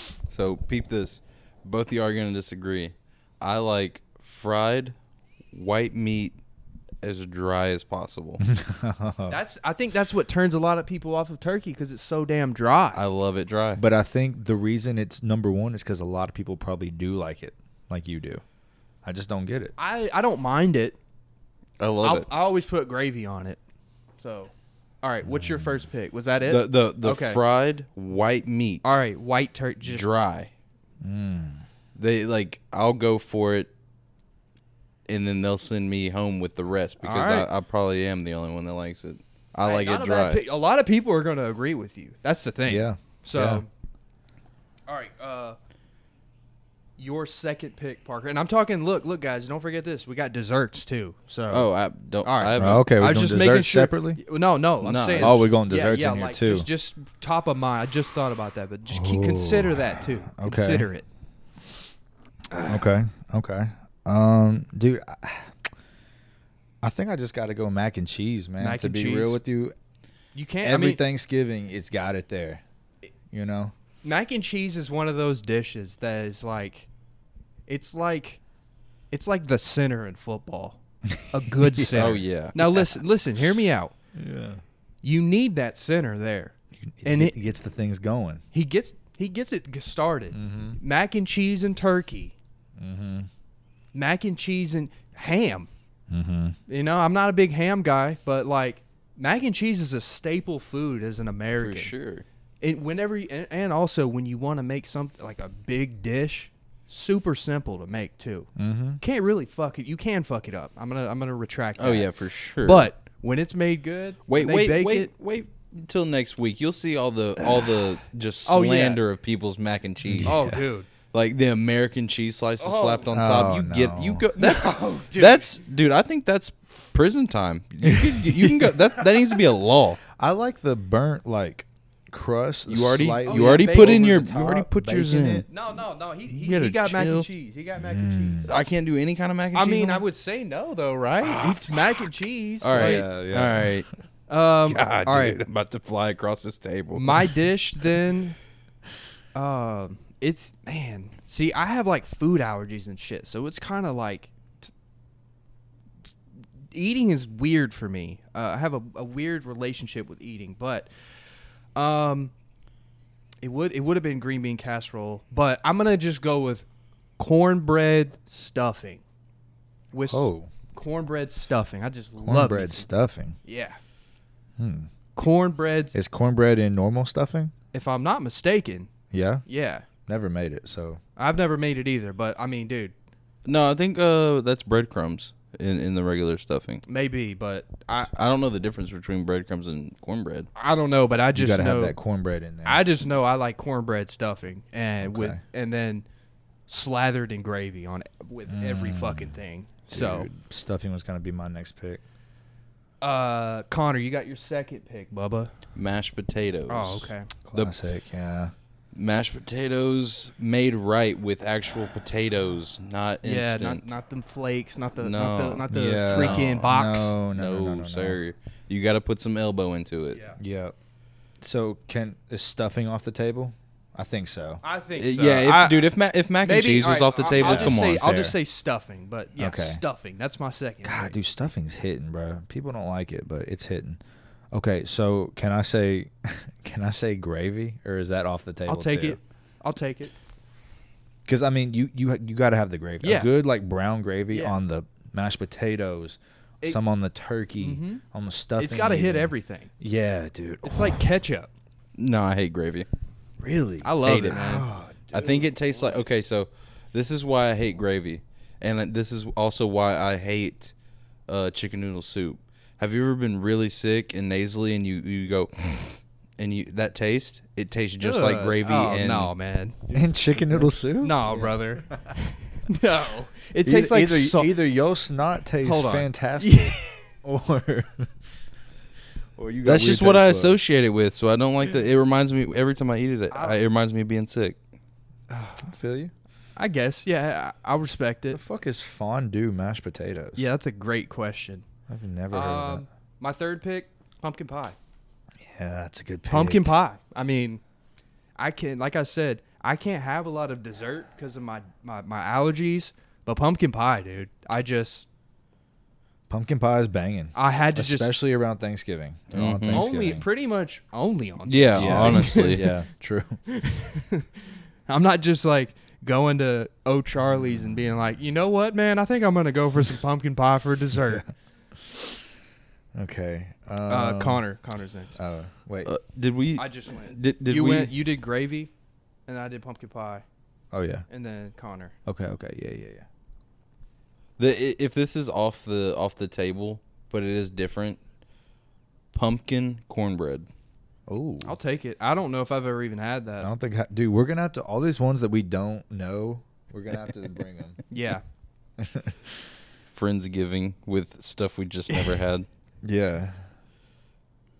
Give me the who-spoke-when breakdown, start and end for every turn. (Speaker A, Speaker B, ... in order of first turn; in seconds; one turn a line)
Speaker A: 0.3-5.0
Speaker A: 5.5-6.4
Speaker A: 7.0-8.4
Speaker B: 8.4-9.4
Speaker C: 9.3-13.0
Speaker A: 12.9-13.8
Speaker B: 13.8-18.4
Speaker B: 19.0-19.7
Speaker C: 19.8-21.0
Speaker A: 21.8-22.3
Speaker C: 22.0-23.6
Speaker C: 24.2-27.4
Speaker B: 25.2-25.9
Speaker A: 26.5-29.0
Speaker C: 28.8-30.1
Speaker A: 29.8-30.5
Speaker B: 31.0-31.6
Speaker A: 32.0-33.7
Speaker A: 35.1-40.4
Speaker C: 37.0-37.5
Speaker C: 39.6-43.7
Speaker B: 42.7-43.6
Speaker C: 44.9-45.6
Speaker C: 47.0-51.7
Speaker A: 51.5-52.9
Speaker C: 52.2-61.1
Speaker B: 52.6-54.2
Speaker A: 54.8-55.5
Speaker B: 55.2-56.7
Speaker B: 58.9-60.9
Speaker C: 62.5-62.9
Speaker B: 62.7-65.7
Speaker B: 66.8-69.8
Speaker C: 68.6-69.4
Speaker C: 70.3-71.0
Speaker B: 70.6-72.6
Speaker B: 73.3-73.7
Speaker C: 74.0-76.9
Speaker C: 77.7-78.4
Speaker C: 79.1-83.9
Speaker B: 81.6-82.2
Speaker A: 82.0-82.8
Speaker B: 84.2-84.6
Speaker C: 85.0-87.4
Speaker B: 86.8-88.4
Speaker C: 88.5-92.3
Speaker B: 90.3-90.8
Speaker B: 92.8-93.3
Speaker C: 93.9-95.7
Speaker B: 96.1-96.6
Speaker C: 96.7-101.9
Speaker A: 101.5-102.2
Speaker C: 102.6-112.1
Speaker B: 108.6-109.0
Speaker A: 111.8-112.9
Speaker C: 112.6-115.1
Speaker A: 114.3-120.5
Speaker C: 118.5-119.0
Speaker B: 120.0-120.6
Speaker C: 120.2-120.9
Speaker A: 121.1-130.0
Speaker C: 122.6-123.1
Speaker B: 123.1-124.3
Speaker C: 124.4-125.6
Speaker B: 127.8-128.8
Speaker B: 130.1-135.5
Speaker A: 132.7-135.5
Speaker C: 133.2-134.2
Speaker C: 135.5-138.5
Speaker A: 136.3-137.3
Speaker B: 137.8-138.5
Speaker A: 138.4-140.0
Speaker C: 139.5-143.1
Speaker A: 141.2-142.0
Speaker A: 142.6-143.9
Speaker B: 142.7-143.8
Speaker C: 144.3-145.4
Speaker A: 144.7-147.3
Speaker C: 146.9-148.4
Speaker C: 149.3-154.3
Speaker C: 156.7-160.9
Speaker C: 161.8-162.3
Speaker C: 163.4-166.7
Speaker C: 167.2-169.0
Speaker C: 169.9-172.9
Speaker B: 170.0-170.5
Speaker B: 172.2-173.4
Speaker C: 173.4-173.8
Speaker B: 174.6-174.9
Speaker C: 175.2-175.9
Speaker B: 175.9-177.5
Speaker C: 177.7-178.9
Speaker B: 179.1-179.4
Speaker C: 179.5-179.9
Speaker B: 180.1-181.0
Speaker C: 181.2-182.9
Speaker A: 183.4-186.8
Speaker C: 186.9-188.1
Speaker A: 188.0-190.5
Speaker C: 190.6-192.0
Speaker B: 191.3-192.8
Speaker C: 192.7-196.1
Speaker B: 195.0-195.4
Speaker C: 196.7-200.3
Speaker B: 198.5-199.4
Speaker B: 199.9-202.0
Speaker C: 203.0-205.5
Speaker A: 205.8-207.7
Speaker C: 206.7-207.3
Speaker B: 207.5-208.5
Speaker A: 208.9-213.9
Speaker C: 213.2-217.2
Speaker A: 215.0-216.7
Speaker B: 215.7-218.2
Speaker A: 217.3-220.2
Speaker C: 220.1-220.4
Speaker B: 220.4-220.8
Speaker B: 221.4-224.6
Speaker C: 224.6-231.2
Speaker A: 225.0-228.0
Speaker B: 227.3-228.4
Speaker B: 229.4-229.8
Speaker B: 230.8-234.0
Speaker B: 234.5-239.2
Speaker C: 238.7-240.1
Speaker B: 241.3-251.0
Speaker C: 243.0-243.3
Speaker C: 244.3-244.6
Speaker C: 247.6-248.0
Speaker C: 248.6-249.7
Speaker C: 250.6-251.5
Speaker A: 252.0-252.9
Speaker B: 253.4-256.2
Speaker C: 253.8-254.7
Speaker A: 254.0-254.6
Speaker A: 255.1-260.7
Speaker A: 261.3-269.3
Speaker C: 268.0-270.0
Speaker B: 269.9-272.1
Speaker C: 270.5-274.5
Speaker B: 273.6-278.1
Speaker C: 275.6-277.1
Speaker B: 279.4-280.6
Speaker A: 279.6-284.6
Speaker C: 283.3-283.6
Speaker B: 285.3-286.1
Speaker C: 286.6-288.4
Speaker B: 288.3-290.4
Speaker C: 290.4-291.6
Speaker B: 291.9-292.8
Speaker C: 292.3-294.8
Speaker B: 295.4-296.7
Speaker C: 296.3-297.6
Speaker C: 298.4-305.1
Speaker B: 306.3-310.3
Speaker C: 307.3-308.1
Speaker A: 309.3-309.9
Speaker C: 309.7-312.7
Speaker A: 311.5-312.7
Speaker B: 311.7-313.4
Speaker C: 313.5-321.3
Speaker B: 322.9-324.4
Speaker C: 323.9-325.2
Speaker B: 325.2-325.9
Speaker A: 325.9-328.0
Speaker C: 326.6-328.7
Speaker C: 329.3-330.2
Speaker B: 330.7-331.1
Speaker C: 331.1-331.9
Speaker B: 332.1-333.1
Speaker A: 334.4-338.0
Speaker A: 339.1-340.5
Speaker B: 341.1-341.6
Speaker C: 341.4-343.5
Speaker B: 343.4-347.8
Speaker C: 347.9-348.2
Speaker B: 348.8-349.4
Speaker A: 349.9-352.5
Speaker B: 352.8-353.5